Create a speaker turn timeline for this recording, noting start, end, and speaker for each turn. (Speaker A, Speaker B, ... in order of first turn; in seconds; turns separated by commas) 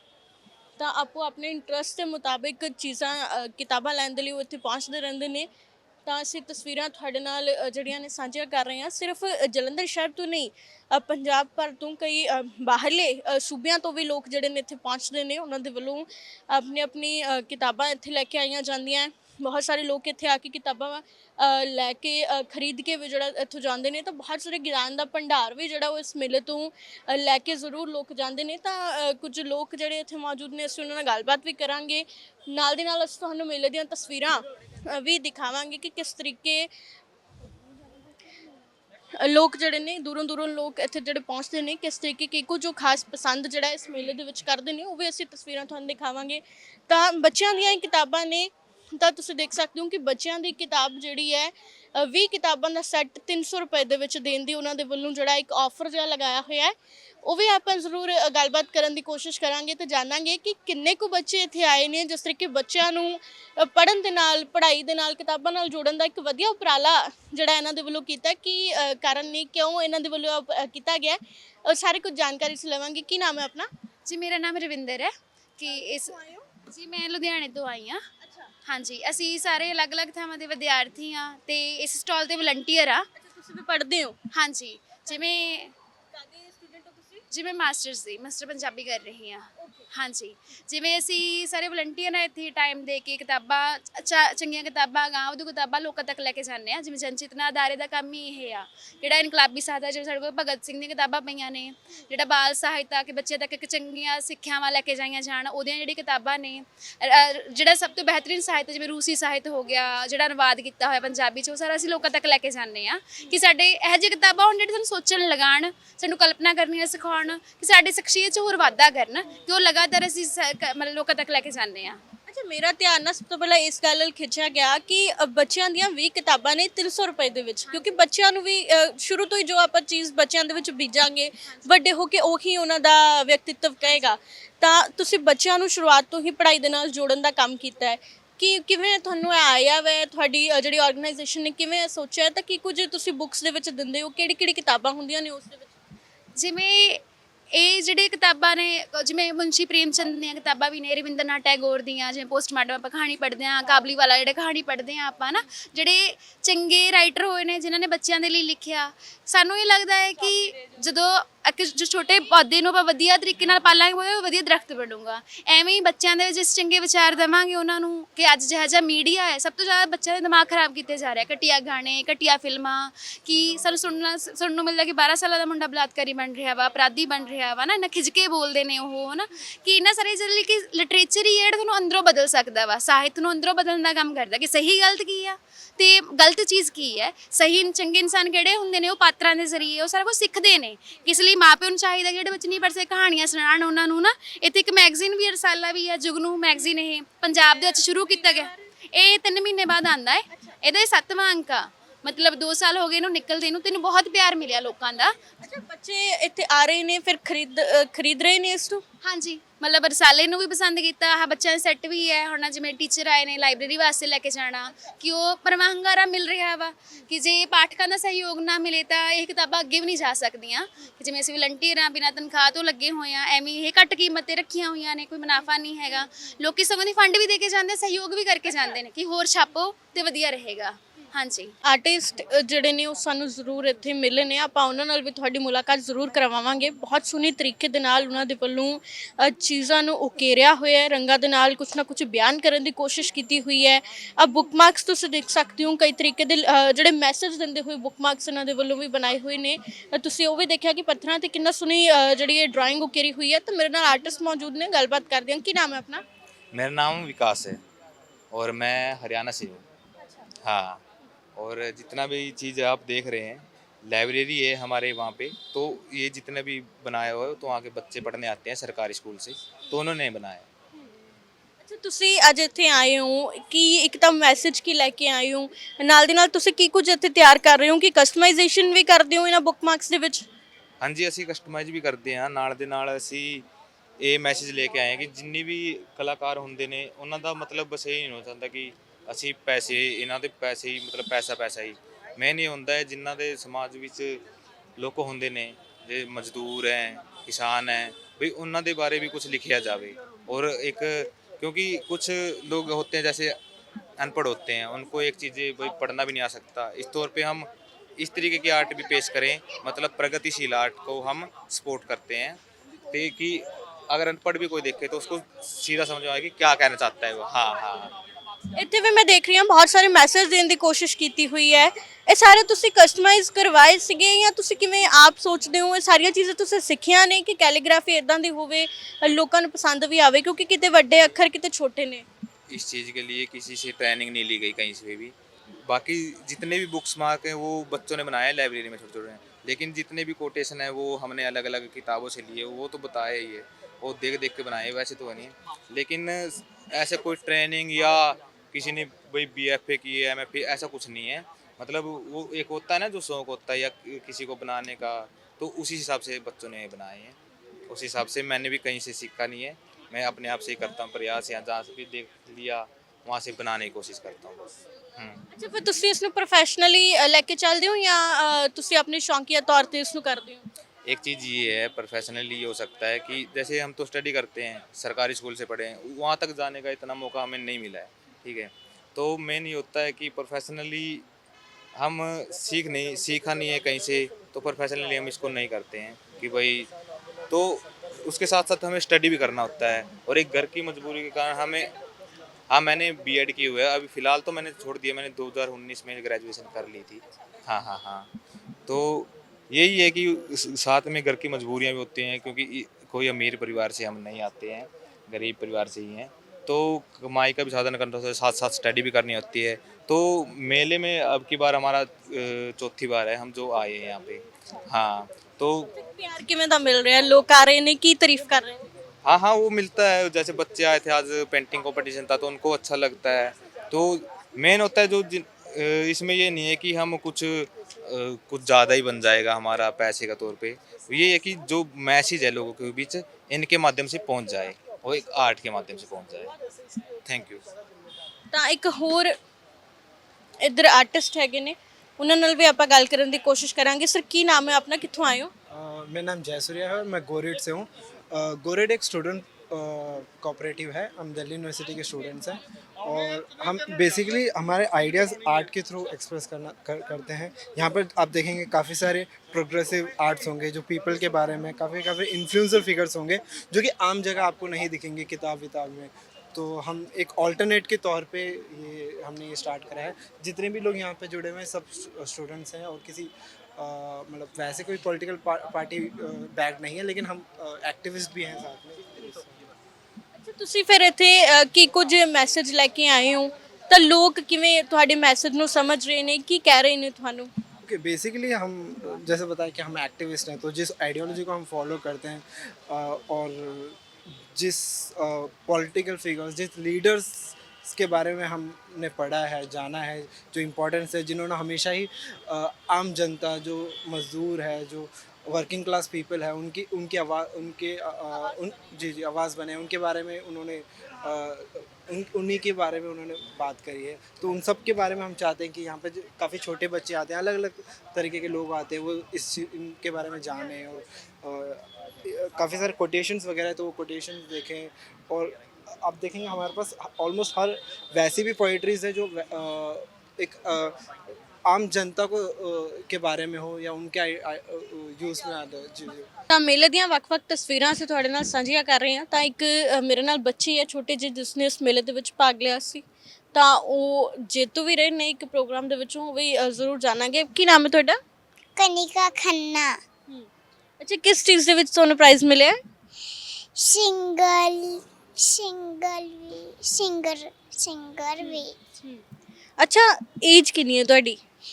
Speaker A: 0.8-5.5, Speaker A: 6.0-36.7, Speaker A: 39.2-73.7, Speaker B: 74.0-78.0, Speaker A: 76.1-76.4, Speaker B: 78.7-83.0, Speaker A: 83.2-84.2, Speaker B: 84.3-85.7, Speaker A: 86.6-87.2, Speaker B: 87.3-122.0, Speaker A: 122.3-145.7, Speaker B: 146.3-205.1, Speaker A: 205.4-208.8, Speaker B: 209.0-231.5, Speaker A: 231.6-256.0, Speaker C: 256.5-257.6, Speaker C: 258.3-259.6, Speaker C: 260.4-260.8, Speaker C: 261.4-270.4, Speaker A: 271.6-280.3, Speaker C: 280.8-283.4, Speaker C: 284.0-294.2, Speaker C: 294.8-303.4, Speaker C: 304.0-307.5, Speaker C: 308.0-312.4, Speaker C: 312.9-317.9, Speaker A: 318.6-332.0, Speaker C: 332.5-335.1, Speaker C: 335.6-357.1, Speaker C: 357.7-365.2, Speaker A: 365.3-370.4, Speaker C: 370.9-381.0, Speaker C: 381.8-386.7, Speaker C: 387.3-391.7, Speaker C: 392.5-398.1, Speaker C: 398.7-415.7, Speaker A: 415.7-418.6, Speaker C: 419.0-436.3, Speaker C: 437.0-437.4, Speaker A: 438.3-439.1, Speaker A: 440.4-445.3, Speaker D: 445.5-479.4, Speaker A: 480.2-487.3, Speaker D: 487.6-493.8, Speaker D: 494.3-530.8, Speaker D: 531.4-536.1, Speaker A: 536.3-548.0, Speaker E: 548.5-549.8, Speaker A: 550.8-552.6, Speaker E: 553.5-558.5, Speaker A: 558.2-559.0, Speaker A: 559.6-561.2